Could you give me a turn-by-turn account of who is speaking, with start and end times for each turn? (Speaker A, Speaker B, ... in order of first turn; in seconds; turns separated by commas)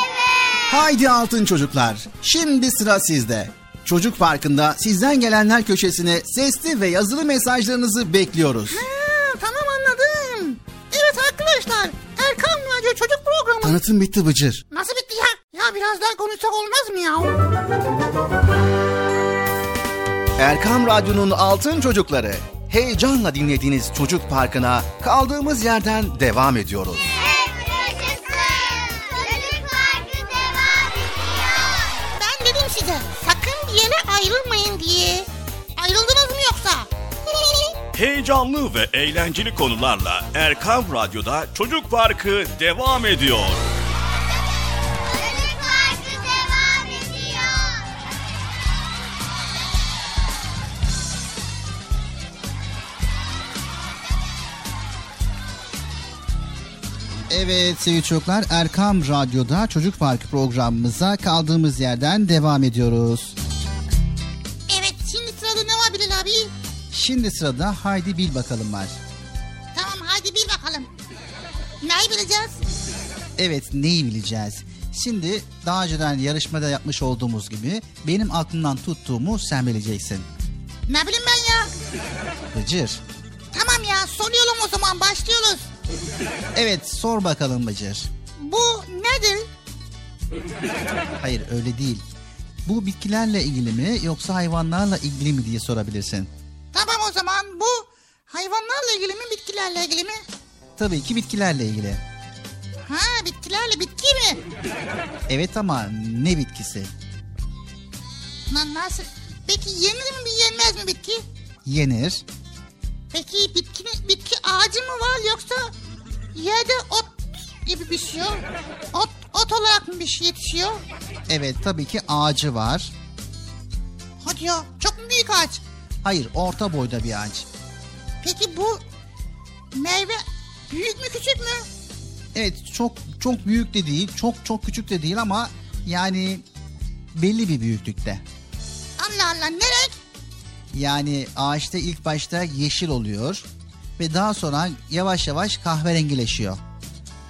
Speaker A: 0.7-8.8, Speaker B: 8.7-13.8, Speaker A: 13.6-14.6, Speaker B: 14.7-17.4, Speaker A: 20.4-27.1, Speaker B: 32.1-36.9, Speaker C: 37.9-43.6, Speaker A: 57.3-63.4, Speaker B: 64.7-66.5, Speaker A: 66.9-69.0, Speaker B: 69.7-70.9, Speaker B: 71.8-72.6, Speaker A: 73.4-80.2, Speaker B: 80.9-81.7, Speaker A: 82.5-83.0, Speaker B: 83.5-85.7, Speaker A: 86.5-88.1, Speaker B: 88.4-89.5, Speaker A: 91.2-92.0, Speaker A: 92.6-96.3, Speaker B: 96.7-100.2, Speaker A: 100.8-102.0, Speaker B: 102.8-104.4, Speaker A: 105.3-106.9, Speaker B: 108.5-111.2, Speaker A: 111.6-112.2, Speaker B: 113.1-115.7, Speaker B: 116.3-120.8, Speaker A: 121.3-122.9, Speaker B: 124.2-125.6, Speaker A: 126.0-127.5, Speaker B: 128.2-128.8, Speaker B: 129.7-131.7, Speaker A: 132.3-136.4, Speaker A: 137.1-138.2, Speaker B: 139.0-140.0, Speaker A: 140.7-143.4, Speaker A: 144.0-146.6